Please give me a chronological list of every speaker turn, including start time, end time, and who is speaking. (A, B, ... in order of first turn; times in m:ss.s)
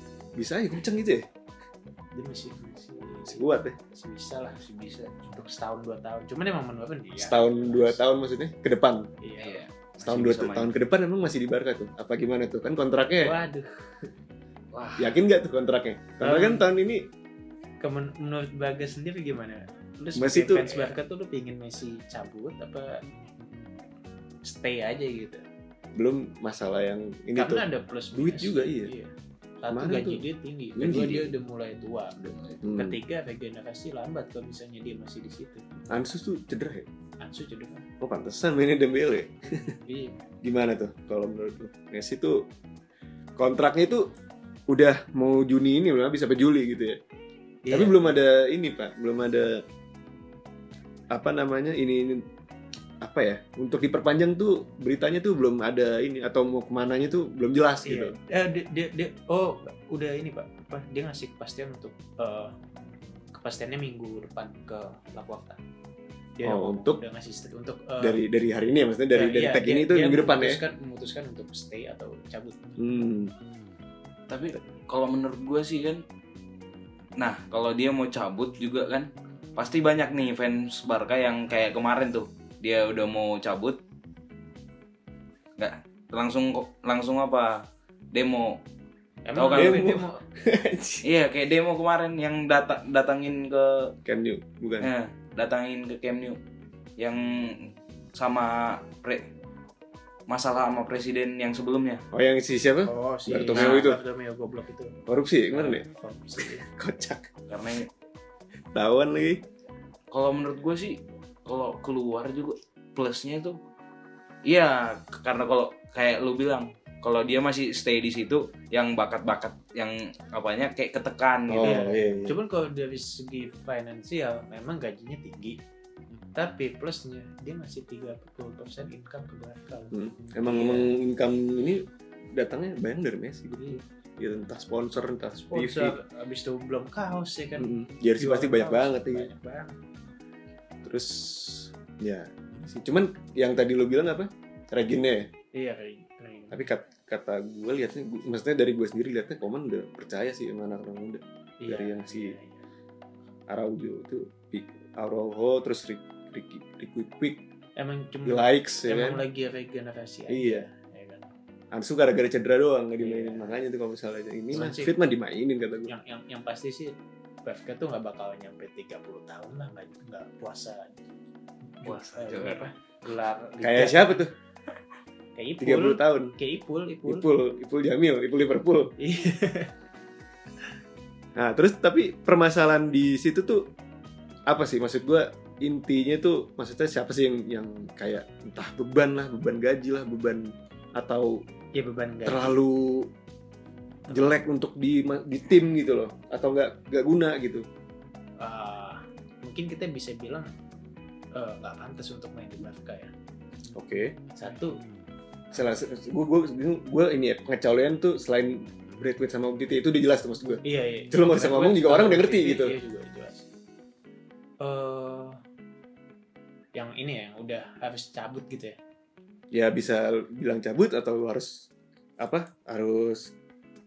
0:00.4-0:01.3 A
0:02.2-0:04.6 B
0:03.3-0:03.8 A
0:04.6-0:05.2 C
0:05.2-0:08.0 B
0:07.2-0:09.1 A
0:09.2-0:09.6 B
0:09.4-0:10.7 C
0:10.0-0:13.4 A
0:13.2-0:13.9 B
0:14.7-0:15.2 C
0:15.0-0:17.1 A
0:16.2-0:16.7 B
0:17.8-0:23.0 B
0:20.2-0:21.0 A
0:24.4-0:25.4 B
0:26.0-0:28.9 A
0:27.4-0:35.6 B
0:29.7-0:30.2 A
0:30.8-0:31.4 A
0:32.2-0:32.6 C
0:32.6-0:33.0 A
0:35.9-0:36.9 A
0:37.2-0:37.9 B
0:38.0-0:39.8 A
0:39.9-0:40.2 B
0:40.4-0:42.5 A
0:43.4-0:44.1 A
0:44.7-0:47.0 A
0:47.6-0:48.2 B
0:47.7-0:49.6 A
0:51.1-0:52.2 A
0:53.0-0:58.2 A
0:57.8-1:02.5 B
1:03.3-1:05.6 B
1:06.4-1:08.2 B
1:06.4-1:07.0 A
1:08.0-1:10.6 A
1:09.1-1:12.8 B
1:12.8-1:13.3 A
1:14.3-1:16.0 C
1:17.2-1:23.8 C
1:25.6-1:28.6 C
1:29.3-1:30.2 B
1:29.4-1:29.9 C
1:29.5-1:31.0 A
1:31.0-1:34.0 C
1:34.1-1:34.9 A
1:34.8-1:36.4 C
1:37.0-1:39.3 C
1:40.3-1:42.0 C
1:42.1-1:44.0 A
1:42.8-1:46.6 B
1:43.6-1:43.9 C
1:45.1-1:45.8 A
1:46.4-1:47.3 A
1:47.5-1:47.9 C
1:48.7-1:49.4 A
1:50.1-1:53.6 C
1:54.4-2:01.8 C
2:01.5-2:02.4 A
2:01.6-2:05.6 B
2:06.4-2:10.9 B
2:09.9-2:16.0 A
2:13.6-2:13.8 B
2:15.4-2:19.8 B
2:17.6-2:19.3 A
2:20.8-2:25.3 A
2:25.6-2:26.6 B
2:26.5-2:32.4 A
2:31.6-2:32.6 B
2:33.5-2:37.4 A
2:37.8-2:41.3 B
2:38.3-2:39.2 A
2:40.3-2:40.7 A
2:41.7-2:45.9 A
2:43.0-2:43.6 B
2:44.5-2:45.0 B
2:45.9-2:51.1 B
2:51.8-2:54.3 B
2:51.8-2:52.7 C
2:53.6-2:54.3 A
2:55.4-2:57.3 B
2:55.6-2:56.4 A
2:57.1-2:59.0 A
2:59.0-2:59.7 B
3:01.4-3:03.7 A
3:04.5-3:11.4 A
3:11.8-3:12.6 B
3:12.2-3:13.1 A
3:14.1-3:14.4 B
3:14.1-3:17.7 A
3:18.4-3:20.5 B
3:21.3-3:23.1 B
3:23.7-3:24.2 A
3:24.4-3:24.8 B
3:25.5-3:32.8 A
3:30.6-3:33.5 B
3:34.6-3:35.4 B
3:36.8-3:38.8 B
3:39.5-3:41.7 A
3:42.2-3:43.3 A